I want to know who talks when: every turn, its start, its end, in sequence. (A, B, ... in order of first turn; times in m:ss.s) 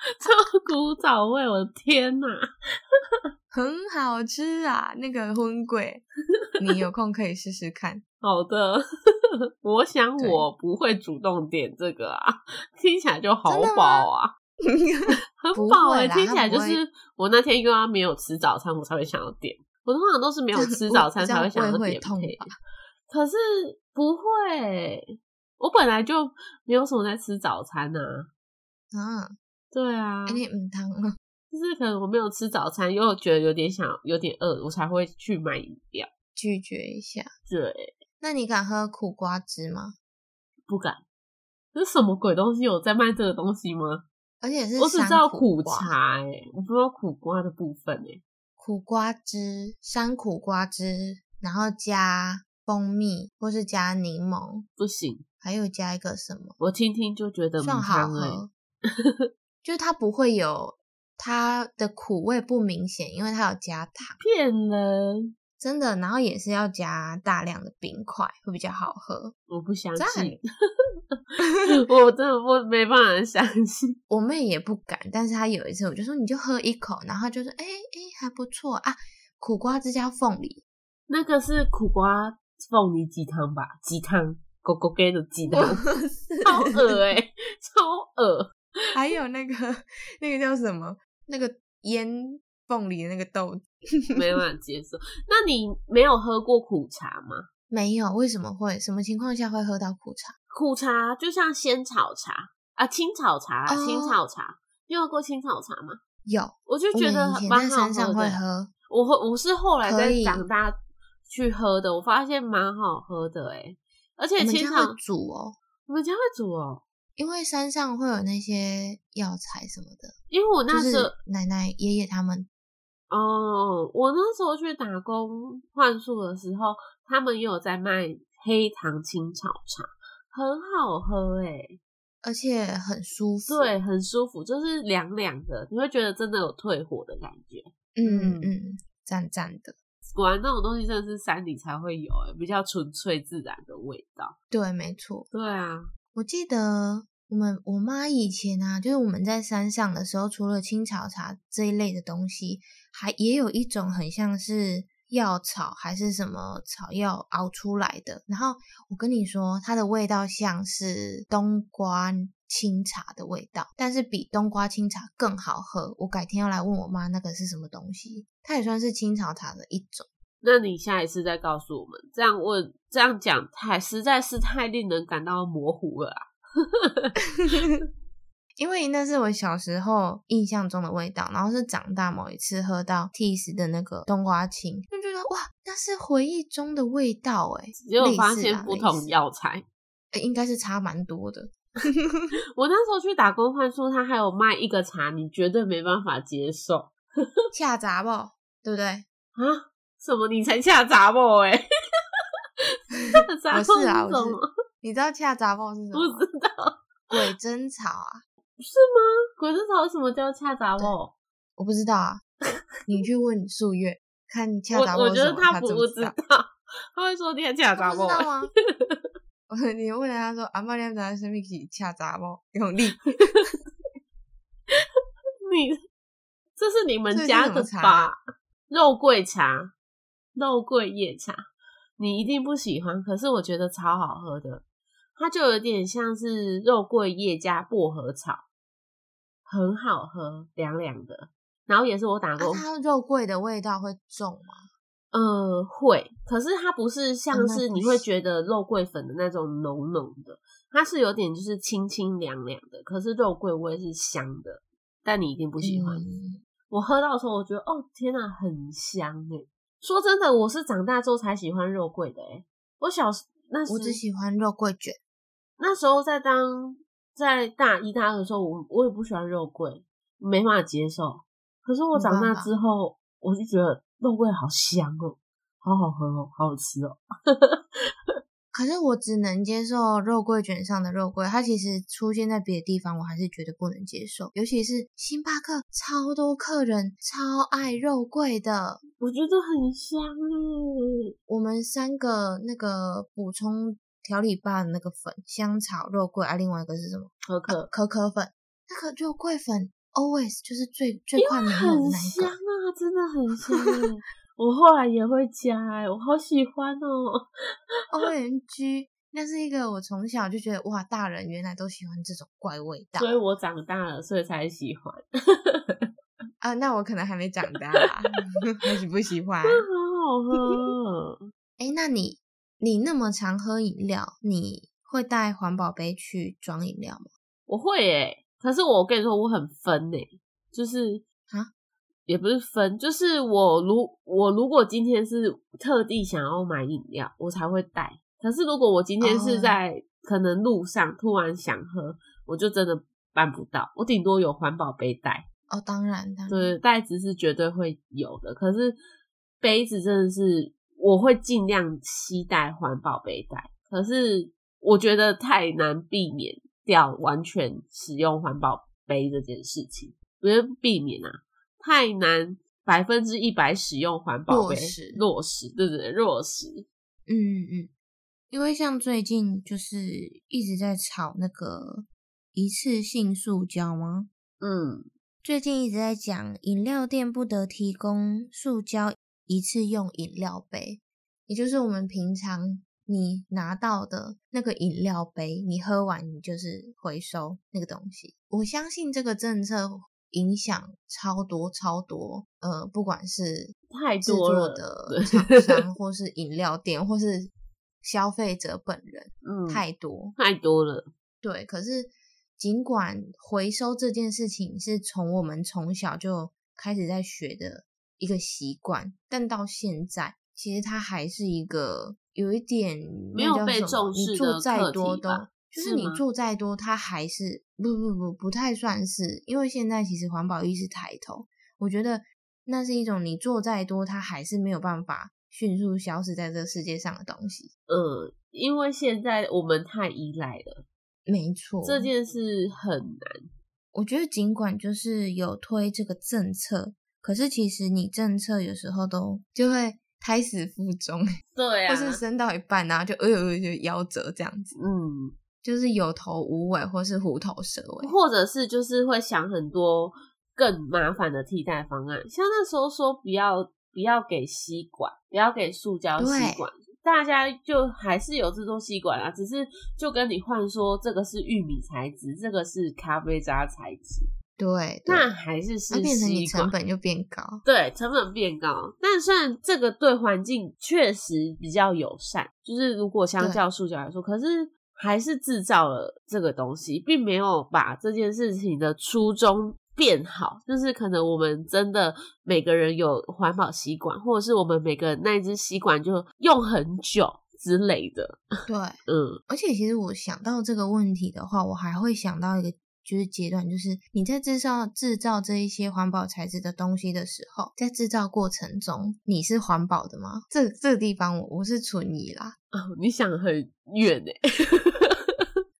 0:00.2-0:02.4 A
0:03.5-0:06.0 B
0:06.6-0:08.0 B
0:08.2-0:08.8 A
0:09.6-0:14.3 A
0:10.2-0:10.4 B
0:13.4-0:14.1 B
0:14.6-0:16.8 B
0:15.4-0:22.5 A
0:20.5-0:22.5 B
0:23.1-0:28.3 A
0:28.9-0:29.3 B
0:29.7-0:30.4 A
0:30.2-0:31.2 B
0:31.5-0:36.1 A
0:36.3-0:37.3 B
0:37.5-0:38.0 A
0:38.2-0:39.9 B
0:40.7-0:41.0 A
0:41.7-0:44.0 A
0:44.4-0:45.9 B
0:44.8-0:48.2 A
0:48.6-0:54.6 B
0:54.8-0:55.2 A
0:55.4-0:56.5 B
0:56.6-0:58.4 A
0:57.6-0:58.5 B
0:59.6-1:04.2 B
1:04.2-1:05.3 A
1:05.6-1:09.4 B
1:09.5-1:10.4 A
1:09.9-1:10.4 B
1:11.3-1:14.0 A
1:14.1-1:20.6 B
1:21.1-1:25.8 A
1:25.5-1:27.0 B
1:26.4-1:28.5 A
1:28.9-1:34.2 B
1:34.1-1:37.5 A
1:37.7-1:40.3 B
1:40.5-1:46.0 A
1:43.7-1:44.2 B
1:46.2-1:48.7 B
1:46.7-1:50.7 A
1:49.8-1:50.5 B
1:51.3-1:55.0 A
1:54.4-1:55.6 B
1:55.9-1:56.8 A
1:57.2-2:00.1 B
2:00.3-2:01.2 A
2:00.7-2:02.5 B
2:03.1-2:11.8 A
2:12.2-2:13.7 B
2:13.5-2:18.5 A
2:17.9-2:19.8 B
2:20.1-2:24.3 A
2:24.5-2:25.3 B
2:25.3-2:25.9 A
2:26.1-2:50.1 B
2:50.4-2:57.8 A
2:57.4-2:57.8 B
2:58.6-3:09.1 B
3:07.8-3:09.6 A
3:10.1-3:12.3 B
3:12.6-3:17.3 A
3:17.5-3:19.0 B
3:19.4-3:21.6 A
3:23.1-3:24.5 A
3:23.1-3:26.2 B
3:25.9-3:27.2 A
3:27.1-3:28.2 B
3:28.6-3:31.1 A
3:31.6-3:32.2 B
3:32.9-3:36.2 B
3:34.7-3:39.0 A
3:37.8-3:38.5 B
3:39.5-3:43.5 B
3:43.2-3:43.6 A
3:45.4-3:45.8 A
3:46.6-3:48.2 A
3:47.1-3:48.1 B
3:48.7-3:49.7 A
3:50.3-3:51.4 A
3:52.0-3:54.6 A
3:55.2-3:58.4 A
3:59.4-4:02.6 A
4:02.4-4:04.7 B
4:05.1-4:16.0 A
4:07.3-4:08.0 B
4:15.6-4:16.4 B
4:16.7-4:24.0 A
4:23.7-4:25.0 B
4:25.6-4:37.6 A
4:31.9-4:32.5 B
4:38.5-4:48.8 B
4:49.0-4:50.8 A
4:51.3-5:02.4 B
4:57.3-4:57.7 A
5:01.2-5:07.2 A
5:03.5-5:03.9 B
5:07.9-5:13.2 B
5:13.0-5:15.9 A
5:16.4-5:19.6 B
5:19.4-5:21.2 A
5:21.6-5:27.1 B
5:27.5-5:31.0 A
5:32.1-5:45.2 A
5:39.0-5:39.6 B
5:45.5-5:46.6 B
5:46.3-5:48.8 A
5:49.4-6:06.6 A
6:04.3-6:05.0 B
6:07.1-6:07.7 B
6:08.3-6:14.1 B
6:14.4-6:14.9 A
6:15.2-6:37.3 B
6:33.7-6:35.6 A
6:37.8-6:40.1 B
6:39.2-6:39.6 A
6:40.2-6:40.9 A
6:41.2-7:07.5 B
6:53.1-6:56.0 A
7:07.7-7:10.6 A
7:11.0-7:11.9 B
7:11.6-7:13.3 A
7:13.7-7:21.1 B
7:21.3-7:22.0 A
7:21.7-7:24.5 B
7:24.5-7:25.1 A
7:25.4-7:27.9 B
7:27.8-7:44.1 A
7:36.0-7:36.5 B
7:44.4-7:45.1 B
7:44.8-7:46.5 A
7:45.7-7:47.4 B
7:47.4-8:08.2 A
8:08.5-8:22.4 B
8:08.8-8:09.2 A
8:22.5-8:25.2 A